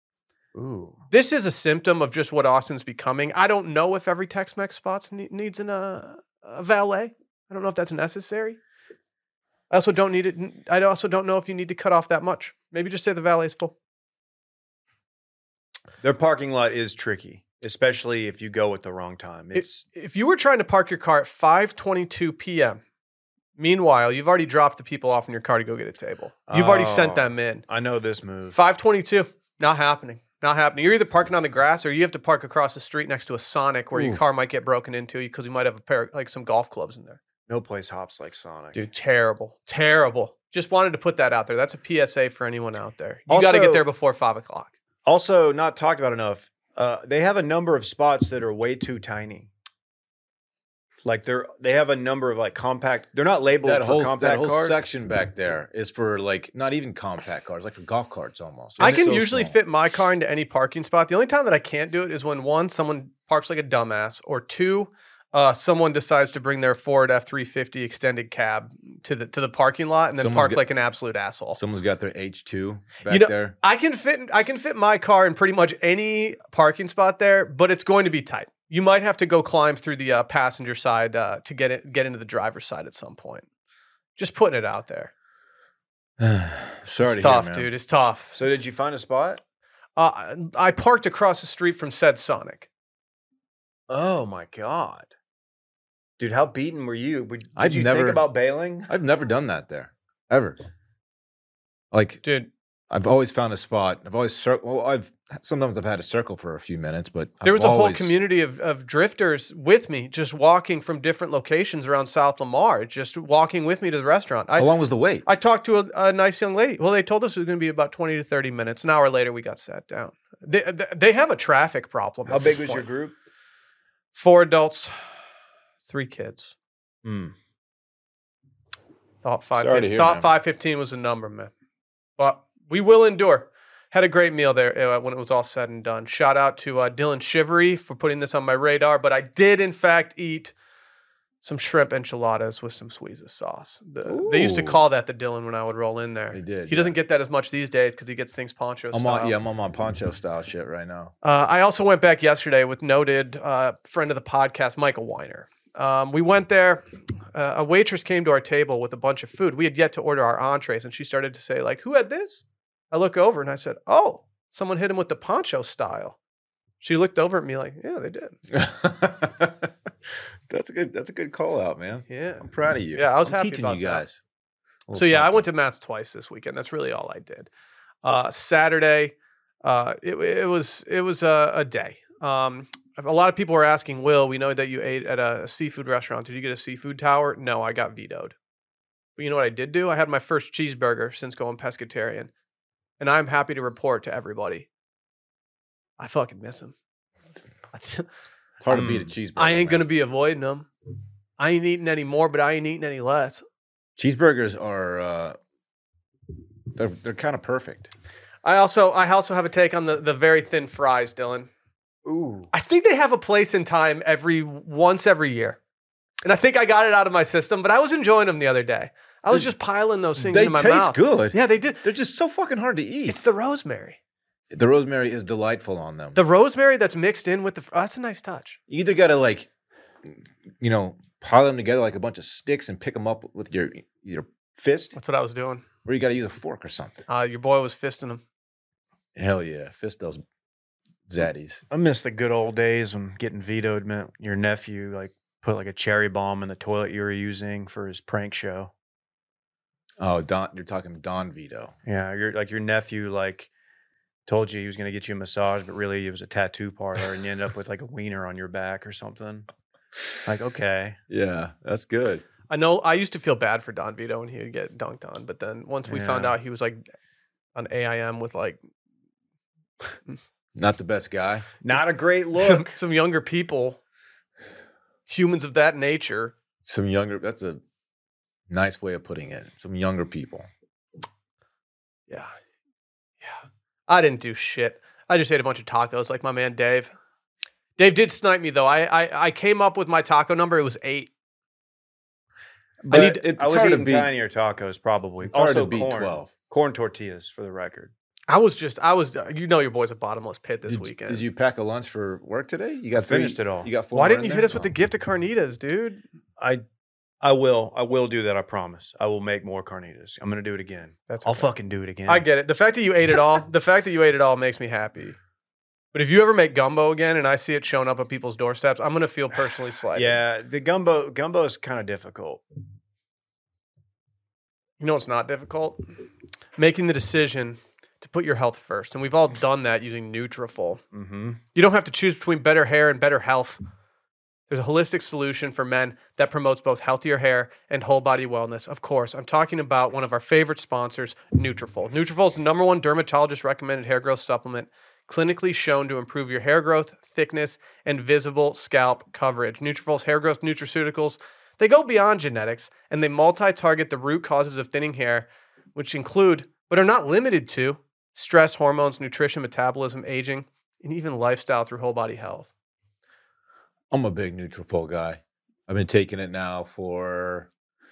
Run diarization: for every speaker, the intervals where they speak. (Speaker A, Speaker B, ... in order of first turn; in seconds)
Speaker A: 0.5-1.0, 16.0-19.8, 26.5-28.6, 37.5-38.8, 43.3-43.8, 45.0-49.5, 51.0-54.7, 58.8-59.1, 88.3-89.4, 93.9-95.1, 96.2-98.9, 122.3-123.1, 127.0-127.3, 198.7-199.1, 212.0-212.5, 241.7-248.7, 251.8-253.5, 254.3-259.4, 260.2-261.0, 265.9-266.4, 271.6-272.7, 292.8-297.9, 303.0-303.7, 307.2-312.2, 319.9-322.4, 330.9-331.4
Speaker B: 1.1-8.6, 9.7-13.7, 19.5-22.8, 23.6-27.6, 28.5-37.2, 38.7-44.7, 58.8-71.6, 73.1-83.5, 84.2-85.1, 87.0-88.6, 90.0-92.7, 102.2-102.5, 107.4-114.7, 115.2-122.8, 124.1-125.2, 125.9-126.5, 129.2-131.5, 132.2-140.5, 141.4-149.3, 151.2-166.2, 166.8-168.3, 172.1-174.0, 174.9-177.5, 178.0-188.3, 189.2-192.3, 193.0-194.7, 196.0-196.7, 197.7-198.1, 199.3-200.7, 201.4-203.4, 208.4-211.5, 212.5-215.6, 216.2-221.8, 223.1-224.0, 226.1-228.6, 234.9-235.6, 237.1-238.2, 262.5-266.8, 267.5-268.6, 272.4-273.8, 275.1-276.3, 283.2-286.9, 287.8-291.1, 292.9-293.2, 298.3-301.2, 303.9-306.0, 311.1-311.5, 312.1-315.2, 315.9-320.2, 324.8-325.8, 326.6-330.8, 331.5-333.6, 334.5-362.5
Speaker C: 53.6-59.6, 70.2-70.6, 71.5-73.5, 86.2-87.7, 97.5-98.2, 98.9-100.6, 101.9-102.2, 102.9-108.1, 114.6-115.2, 129.6-130.3, 144.1-144.8, 146.3-146.9, 148.9-151.1, 168.5-169.7, 170.5-174.2, 174.9-175.4, 198.6-199.9, 204.0-205.4, 206.7-207.9, 220.2-223.2, 224.5-226.2, 228.7-229.5, 230.0-234.9, 235.8-237.0, 239.1-240.2, 241.1-241.6, 250.0-251.7, 261.1-262.2, 270.5-271.5, 276.6-277.6, 278.5-280.5, 292.9-294.1, 295.2-296.3, 300.7-304.7, 363.9-367.5